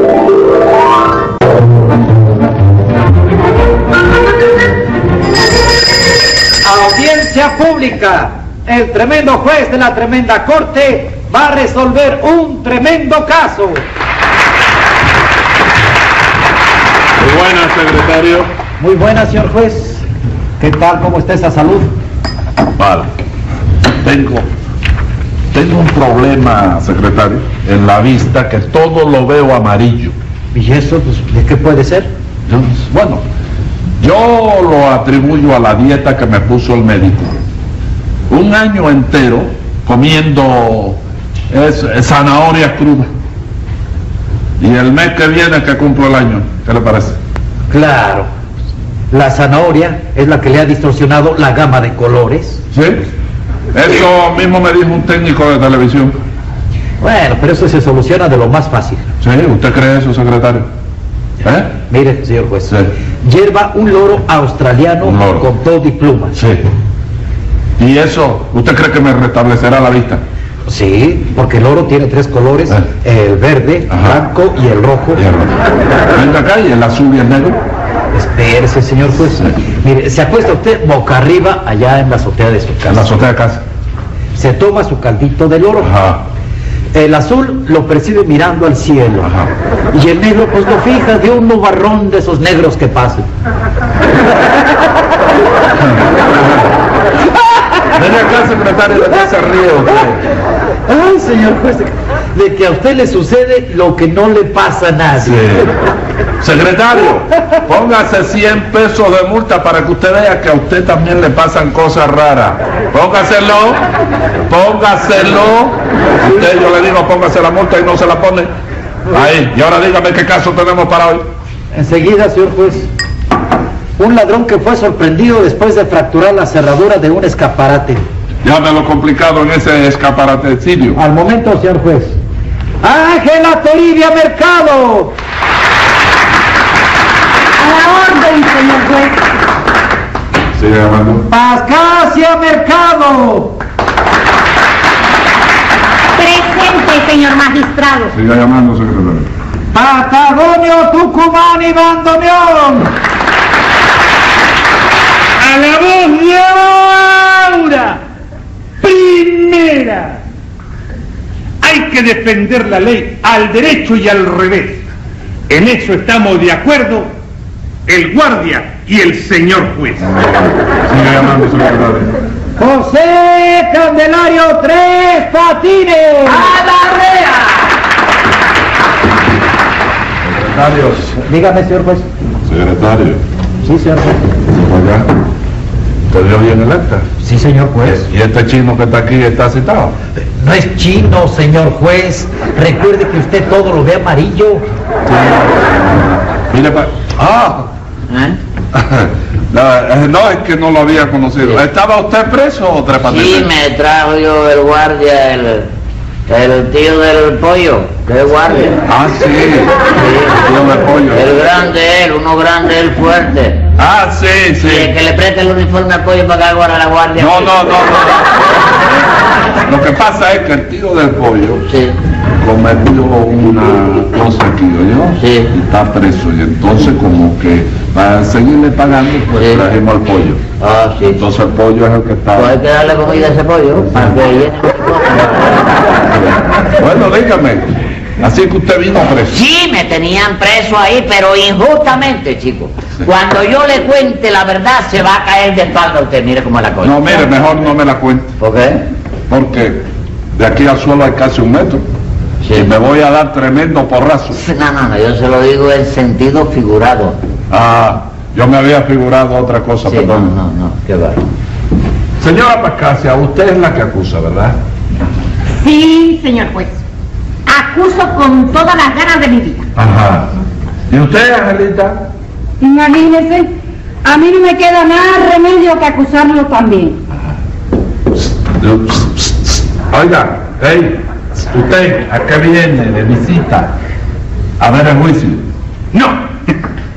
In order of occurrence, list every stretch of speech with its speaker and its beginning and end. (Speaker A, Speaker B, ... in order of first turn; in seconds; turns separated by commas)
Speaker A: 6.6-13.8, Speaker B: 17.2-18.5, Speaker A: 18.8-20.0, Speaker A: 20.6-21.9, Speaker B: 22.8-23.1, Speaker B: 24.0-24.5, Speaker B: 25.5-30.1, Speaker A: 30.5-32.1, Speaker B: 32.5-33.2, Speaker B: 34.0-37.4, Speaker B: 38.3-41.0, Speaker B: 41.5-43.1, Speaker B: 44.6-47.2, Speaker A: 47.7-48.3, Speaker A: 49.1-52.6, Speaker B: 52.7-53.0, Speaker B: 53.7-56.2, Speaker A: 57.0-59.1, Speaker B: 59.2-60.7, Speaker B: 61.4-61.8, Speaker A: 61.8-66.4, Speaker B: 65.0-65.4, Speaker B: 66.3-66.6, Speaker B: 67.8-70.2, Speaker A: 70.7-75.2, Speaker B: 73.9-74.2, Speaker B: 75.1-77.6, Speaker A: 78.1-83.1, Speaker B: 82.9-83.6, Speaker A: 84.3-85.9, Speaker B: 85.8-86.2, Speaker A: 86.9-89.3, Speaker B: 89.2-89.5, Speaker A: 89.9-93.2, Speaker B: 95.8-96.7, Speaker B: 97.9-100.2, Speaker A: 100.9-105.5, Speaker B: 105.2-105.7, Speaker B: 106.4-113.8, Speaker B: 114.5-118.5, Speaker B: 119.1-121.2, Speaker A: 121.7-122.9, Speaker A: 124.0-128.0, Speaker B: 128.4-131.0, Speaker A: 130.9-132.2, Speaker A: 132.8-135.1, Speaker C: 137.6-139.1, Speaker B: 140.6-141.2, Speaker A: 141.3-143.6, Speaker D: 146.2-148.1, Speaker B: 148.1-149.3, Speaker A: 149.7-152.9, Speaker E: 155.4-158.0, Speaker E: 158.8-159.6, Speaker A: 159.2-159.7, Speaker E: 161.6-164.8, Speaker E: 165.5-167.1, Speaker E: 167.9-170.1, Speaker B: 170.1-172.1, Speaker A: 172.6-176.6, Speaker F: 176.8-177.3, Speaker B: 180.2-181.1, Speaker A: 181.1-182.1, Speaker B: 182.5-183.2, Speaker A: 183.6-184.2, Speaker B: 184.5-185.1, Speaker B: 186.1-187.1, Speaker A: 187.2-188.1, Speaker B: 187.8-190.0, Speaker A: 190.3-194.6, Speaker B: 195.1-197.7, Speaker F: 198.1-198.4, Speaker B: 198.7-203.5, Speaker F: 203.0-205.7, Speaker F: 206.3-208.8, Speaker B: 208.9-209.9, Speaker F: 209.9-210.5, Speaker B: 210.4-211.3, Speaker F: 211.1-213.6, Speaker B: 213.8-214.9, Speaker F: 214.6-217.9, Speaker B: 217.2-218.6, Speaker B: 219.6-221.6, Speaker F: 221.6-222.0, Speaker B: 222.4-230.4, Speaker F: 225.2-225.5, Speaker F: 229.3-229.7, Speaker F: 230.6-231.2, Speaker B: 231.2-232.6, Speaker F: 232.3-236.0, Speaker B: 236.7-237.7, Speaker B: 238.2-239.4, Speaker F: 239.3-247.2, Speaker B: 246.8-248.3, Speaker F: 248.4-248.8, Speaker B: 249.3-249.8, Speaker B: 250.3-251.8, Speaker F: 252.4-252.7, Speaker B: 252.5-254.4, Speaker F: 254.3-257.2, Speaker B: 257.5-260.3, Speaker F: 259.8-261.3, Speaker B: 262.2-264.6, Speaker D: 265.5-266.8, Speaker D: 267.5-269.7, Speaker B: 269.8-270.3, Speaker B: 270.9-272.1, Speaker C: 272.6-273.5, Speaker C: 274.0-277.0, Speaker B: 278.2-283.7, Speaker B: 284.6-285.4, Speaker E: 285.9-286.5